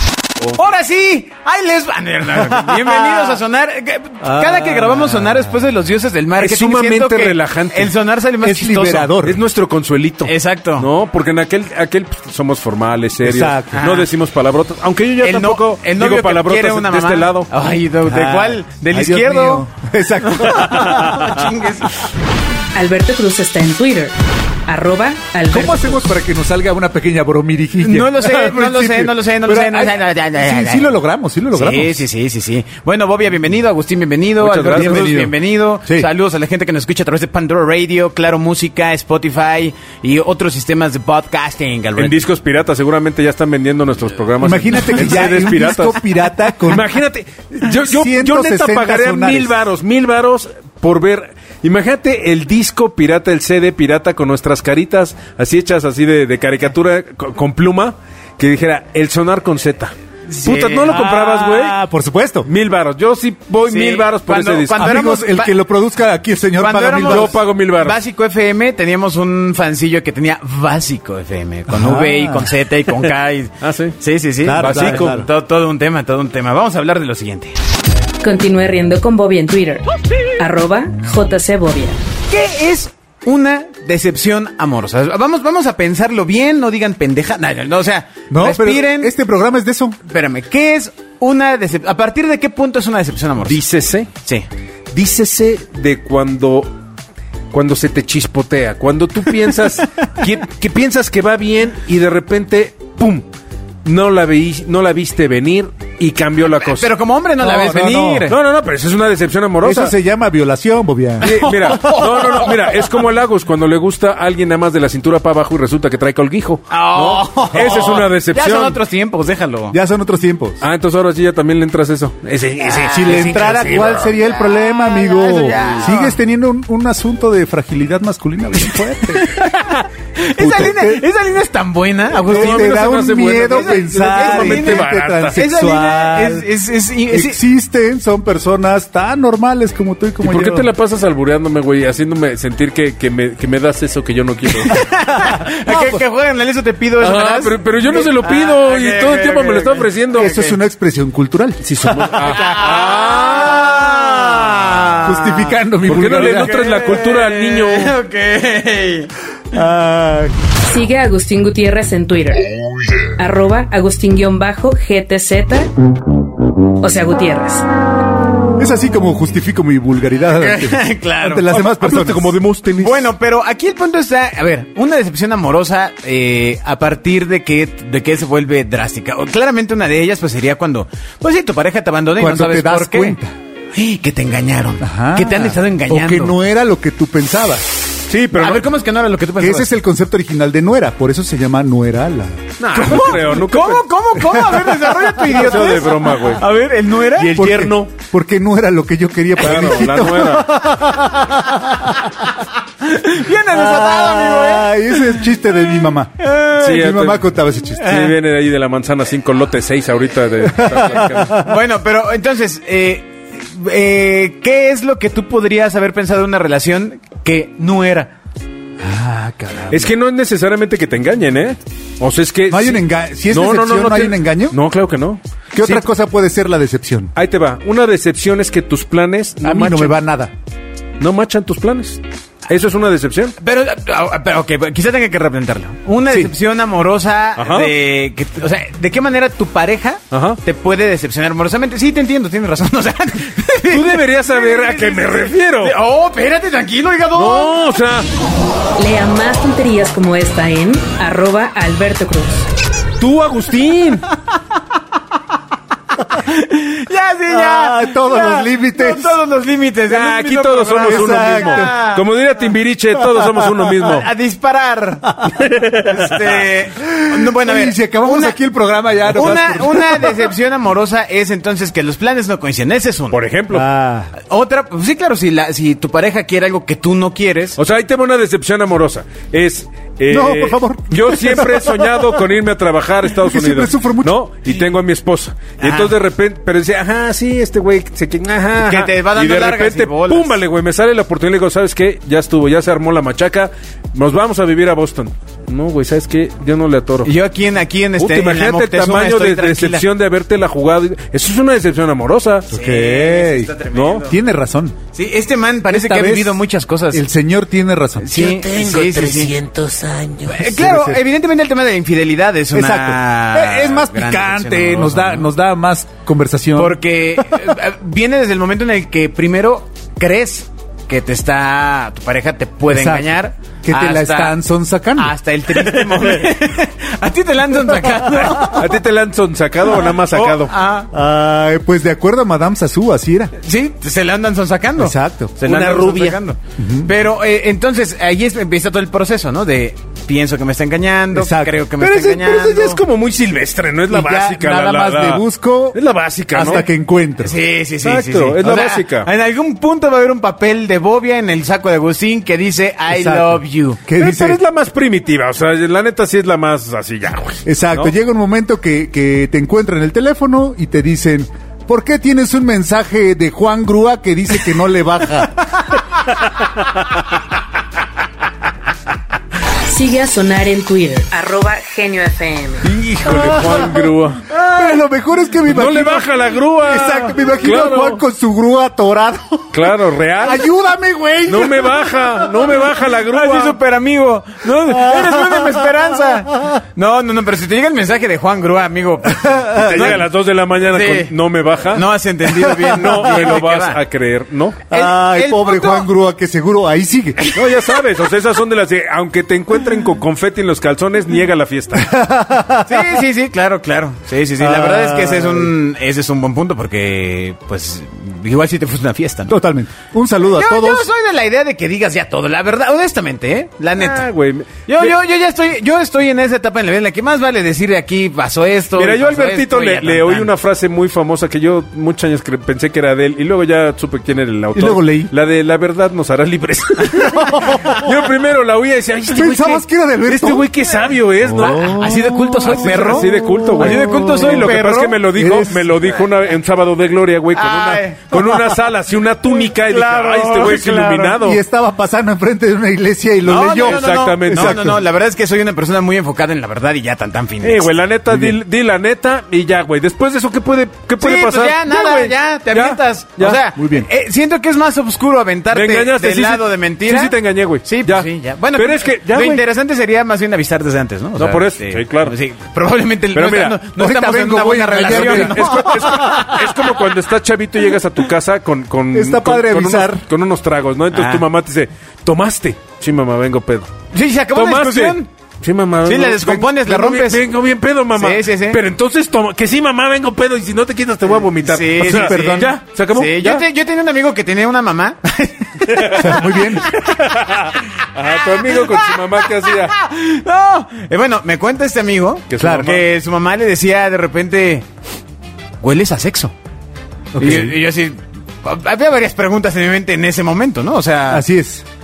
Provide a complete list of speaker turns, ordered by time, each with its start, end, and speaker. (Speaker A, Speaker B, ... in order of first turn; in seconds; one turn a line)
Speaker A: 0.4-0.7
Speaker B: 0.6-9.1
Speaker C: 2.4-3.4
Speaker C: 4.2-5.4
Speaker A: 6.4-7.9
Speaker C: 8.4-9.4
Speaker A: 9.1-17.5
Speaker B: 10.2-10.9
Speaker C: 13.2-13.8
Speaker B: 13.7-14.1
Speaker B: 15.2-19.7
Speaker C: 18.0-21.2
Speaker B: 20.3-22.0
Speaker D: 22.7-24.1
Speaker D: 24.7-26.0
Speaker C: 25.5-32.0
Speaker B: 27.8-31.0
Speaker B: 31.5-42.2
Speaker A: 34.4-35.1
Speaker C: 34.7-36.1
Speaker A: 42.0-61.8
Speaker C: 44.4-46.9
Speaker C: 47.6-49.5
Speaker B: 60.3-61.0
Speaker C: 60.9-62.5
Speaker A: 62.5-65.1
Speaker B: 63.6-65.5
Speaker C: 64.7-67.3
Speaker B: 66.6-77.5
Speaker A: 67.0-68.0
Speaker C: 71.7-72.5
Speaker A: 73.6-74.0
Speaker C: 74.4-75.3
Speaker A: 74.5-75.2
Speaker D: 78.2-79.8
Speaker D: 80.4-82.0
Speaker B: 82.3-89.1
Speaker C: 88.3-90.0
Speaker B: 90.0-93.6
Speaker A: 93.4-94.1
Speaker A: 94.9-96.7
Speaker A: 97.5-103.2
Speaker A: 103.8-106.9
Speaker B: 106.6-108.4
Speaker C: 107.4-108.3
Speaker A: 108.3-109.9
Speaker C: 109.6-111.7
Speaker B: 111.2-112.9
Speaker A: 111.2-118.8
Speaker B: 116.7-119.8
Speaker C: 119.7-120.6
Speaker A: 120.6-122.3
Speaker B: 122.3-126.1
Speaker C: 122.8-129.4
Speaker B: 129.1-137.4
Speaker C: 130.3-131.1
Speaker A: 132.2-135.5
Speaker C: 132.2-136.5
Speaker C: 137.1-140.7
Speaker A: 140.2-144.8
Speaker B: 144.7-150.6
Speaker C: 145.2-146.0
Speaker A: 147.0-150.3
Speaker C: 150.2-153.2
Speaker A: 151.6-153.8
Speaker B: 152.2-159.1
Speaker C: 153.8-154.4
Speaker C: 155.0-156.6
Speaker A: 155.8-158.0
Speaker C: 159.5-160.3
Speaker D: 160.6-162.4
Speaker D: 163.2-165.7
Speaker D: 166.8-167.6
Speaker C: 168.6-172.3
Speaker B: 170.4-171.4
Speaker A: 171.5-173.1
Speaker B: 172.8-183.2
Speaker C: 182.1-183.3
Speaker B: 183.7-186.3
Speaker C: 184.8-187.7
Speaker A: 188.1-188.6
Speaker B: 188.4-189.7
Speaker C: 189.4-192.5
Speaker A: 192.6-196.5
Speaker B: 192.7-197.4
Speaker C: 194.2-195.0
Speaker A: 197.1-197.9
Speaker C: 197.3-202.2
Speaker A: 199.4-200.6
Speaker B: 202.8-204.8
Speaker C: 203.5-206.1
Speaker B: 206.2-206.9
Speaker A: 206.6-207.2
Speaker C: 206.7-208.0
Speaker B: 207.8-208.1
Speaker A: 207.8-211.4
Speaker C: 210.4-211.5
Speaker B: 211.3-218.1
Speaker C: 218.8-219.9
Speaker A: 219.7-225.8
Speaker C: 222.5-224.6
Speaker C: 225.5-227.1
Speaker A: 227.1-229.9
Speaker C: 229.4-230.3
Speaker A: 231.0-233.3
Speaker B: 233.4-247.5
Speaker C: 236.1-236.3
Speaker A: 237.3-237.7
Speaker A: 240.1-240.4
Speaker A: 243.7-245.8
Speaker A: 247.1-248.1
Speaker D: 248.8-252.5
Speaker A: 253.0-254.1
Speaker B: 256.1-262.0
Speaker C: 257.3-259.2
Speaker A: 259.9-264.1
Speaker C: 260.9-261.8
Speaker B: 263.8-268.4
Speaker C: 265.2-265.5
Speaker A: 265.6-266.4
Speaker C: 266.8-270.3
Speaker B: 269.1-273.2
Speaker A: 273.1-273.6
Speaker C: 273.5-274.1
Speaker B: 274.2-277.6
Speaker A: 277.6-297.1
Speaker C: 280.1-282.2
Speaker C: 283.1-284.2
Speaker B: 285.6-285.9
Speaker B: 288.6-290.4
Speaker B: 297.0-299.8
Speaker A: 298.0-302.5
Speaker C: 302.5-303.5
Speaker B: 302.5-304.2
Speaker A: 303.7-304.1
Speaker C: 304.1-304.8
Speaker B: 304.9-307.0
Speaker C: 305.7-306.4
Speaker C: 306.9-308.1
Speaker B: 308.0-309.3
Speaker E: 308.1-310.5
Speaker B: 310.3-315.3
Speaker C: 310.4-311.0
Speaker C: 312.5-317.5
Speaker B: 316.5-324.3
Speaker C: 322.7-325.1
Speaker B: 324.9-328.7
Speaker A: 328.0-330.5
Speaker B: 329.9-330.9
Speaker C: 330.9-333.3
Speaker B: 333.4-342.8
Speaker C: 334.8-335.4
Speaker A: 335.4-336.2
Speaker C: 336.6-336.9
Speaker C: 341.1-341.6
Speaker A: 341.8-346.6
Speaker C: 343.9-345.8
Speaker C: 346.3-347.3
Speaker B: 347.2-353.8
Speaker A: 347.8-349.1
Speaker C: 352.9-354.4
Speaker A: 354.0-357.9
Speaker C: 357.4-365.6
Speaker D: 369.6-372.7
Speaker A: 372.6-374.3
Speaker C: 373.0-373.9
Speaker B: 374.3-374.8
Speaker C: 374.4-379.5
Speaker A: 375.4-378.0
Speaker A: 379.5-380.5
Speaker C: 380.2-382.1
Speaker A: 381.2-383.6
Speaker B: 383.1-390.0
Speaker C: 384.6-386.1
Speaker C: 389.2-390.0
Speaker A: 389.6-391.9
Speaker B: 390.6-391.1
Speaker B: 391.7-393.8
Speaker A: 392.4-394.6
Speaker B: 394.7-395.9
Speaker C: 394.7-397.2
Speaker B: 397.2-397.6
Speaker A: 397.3-402.0
Speaker C: 401.8-403.0
Speaker B: 402.6-409.3
Speaker C: 404.4-405.5
Speaker C: 409.3-410.9
Speaker B: 410.3-414.1
Speaker A: 413.8-414.9
Speaker B: 414.7-420.3
Speaker A: 418.8-441.4
Speaker C: 424.5-425.1
Speaker C: 427.4-427.7
Speaker C: 429.1-430.5
Speaker C: 431.3-434.5
Speaker B: 431.4-435.0
Speaker C: 435.1-435.7
Speaker B: 437.3-438.4
Speaker B: 439.4-441.2
Speaker C: 441.2-444.8
Speaker B: 443.2-447.7
Speaker A: 443.3-444.8
Speaker A: 447.4-453.4
Speaker C: 448.1-448.4
Speaker B: 451.0-466.4
Speaker C: 453.5-453.9
Speaker A: 455.5-459.4
Speaker A: 461.2-462.1
Speaker A: 463.1-463.6
Speaker C: 463.7-466.4
Speaker A: 464.8-473.7
Speaker C: 468.9-470.0
Speaker B: 470.9-471.2
Speaker B: 473.9-475.1
Speaker A: 474.3-483.4
Speaker B: 475.8-477.2
Speaker B: 477.9-478.6
Speaker B: 481.4-486.8
Speaker C: 481.8-482.6
Speaker A: 485.7-489.7
Speaker C: 485.9-486.7
Speaker B: 488.4-494.7
Speaker A: 492.3-492.8
Speaker C: 492.4-492.8
Speaker B: 495.6-496.3
Speaker C: 497.1-497.6
Speaker B: 497.2-501.2
Speaker C: 501.1-501.6